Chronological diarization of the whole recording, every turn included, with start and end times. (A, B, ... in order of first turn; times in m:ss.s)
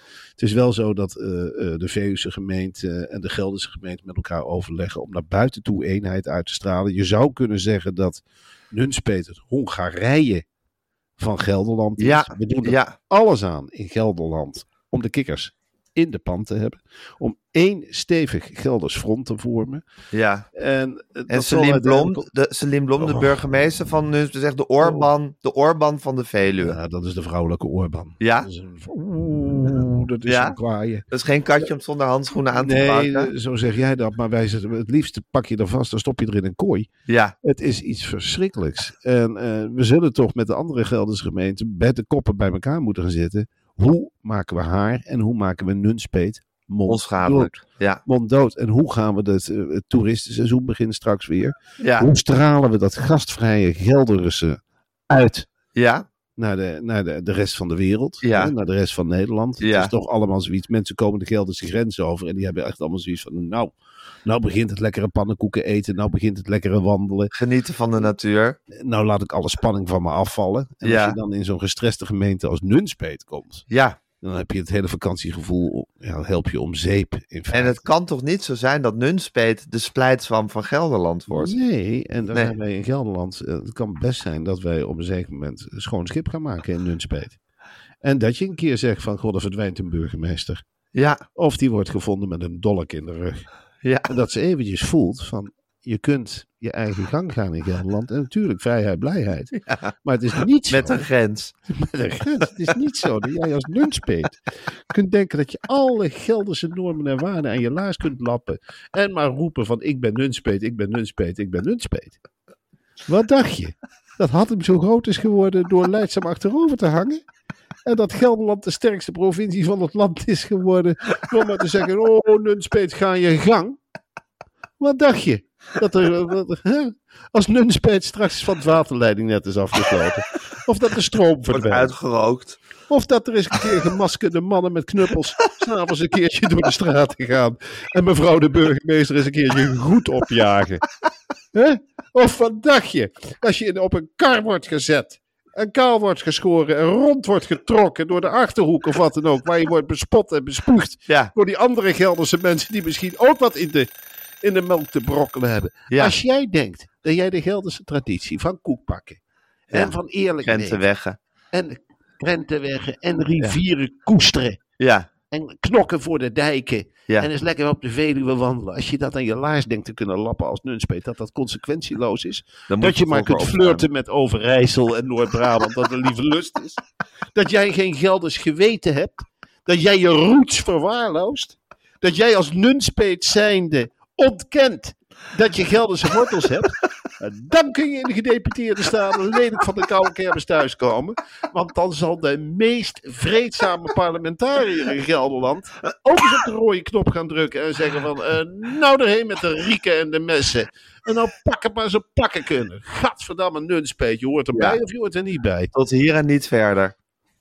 0:00.4-0:10.4 A
0:11.2-0:19.8 A
0:12.0-0:13.0 B
0:20.1-0:20.5 B
0:20.5-0:22.3 A
0:21.3-0:26.8 B
0:23.0-0:23.3 A
0:24.8-0:25.1 A
0:26.6-0:31.1 A
0:28.2-0:28.5 B
0:30.3-0:30.6 B
0:31.1-0:33.3 B
0:32.6-0:36.9 A
0:37.1-0:37.4 B
0:37.4-0:47.5 A
0:46.9-0:48.0 B
0:48.1-0:55.5 A
0:51.8-0:52.1 B
0:55.8-0:56.0 B
0:56.4-1:07.3 A
0:58.2-0:58.5 B
0:59.6-0:59.9 B
1:07.3-1:08.6 B
1:08.7-1:13.7 A
1:10.8-1:11.2 B
1:13.7-1:14.0 B
1:14.2-1:17.8 A
1:17.5-1:21.6 B
1:21.3-1:27.4 A
1:28.0-1:30.6 A
1:31.0-1:31.2 B
1:31.4-1:33.5 A
1:34.1-1:41.1 A
1:40.7-1:41.5 B
1:41.7-1:52.2 A
1:53.1-1:57.2 A
1:57.8-2:03.8 A
2:04.8-2:11.9 A
2:11.5-2:12.6 B
2:12.9-2:20.8 A
2:21.5-2:39.2 A
2:39.7-2:40.8 A
2:40.4-2:41.2 B
2:41.5-2:44.6 A
2:44.8-2:45.1 B
2:45.3-2:56.8 A
2:52.7-2:53.8 B
2:57.3-3:25.7 A
3:24.5-3:24.8 B
3:25.7-3:26.9 B